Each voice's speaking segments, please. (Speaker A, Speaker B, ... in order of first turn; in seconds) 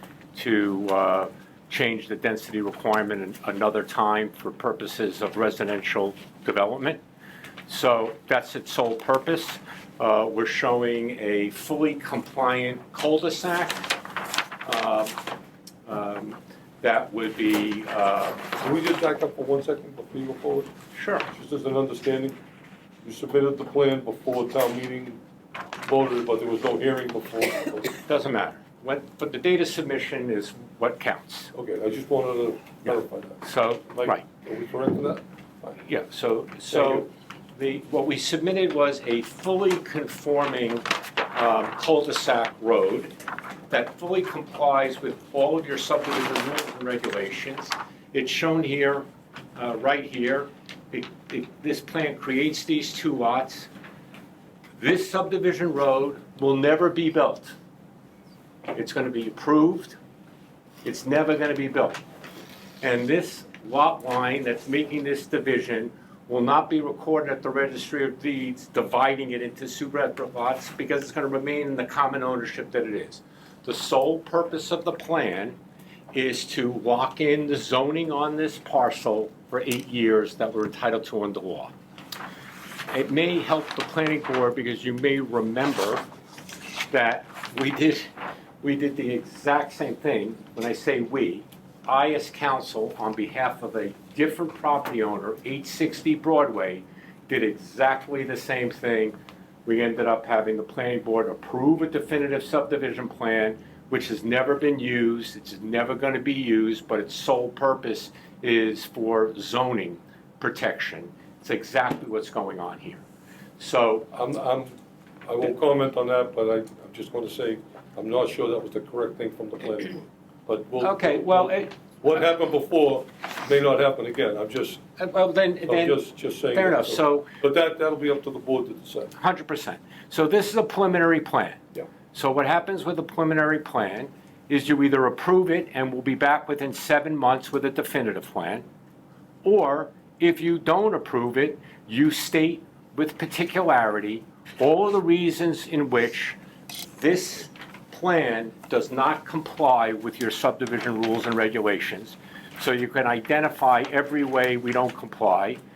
Speaker A: 0.3-7.0, 7.7-13.9, 14.6-15.2, 15.8-18.6, 20.9-21.3, 27.9-31.5, 32.8-34.2, 35.8-43.1, 43.7-53.7, 54.8-57.5, 58.7-60.0, 60.8-62.0, 62.8-75.6, 76.1-81.7, 82.9-86.0, 86.9-88.1, 88.6-113.0, 113.6-114.1, 120.8-121.7, 125.0-127.3, 129.2-138.6, 139.4-146.4, 146.9-155.6
Speaker B: 18.6-20.7, 21.3-22.4, 23.0-25.2, 25.8-27.9, 31.5-35.8, 36.7-37.1, 114.1-124.8, 125.7-129.1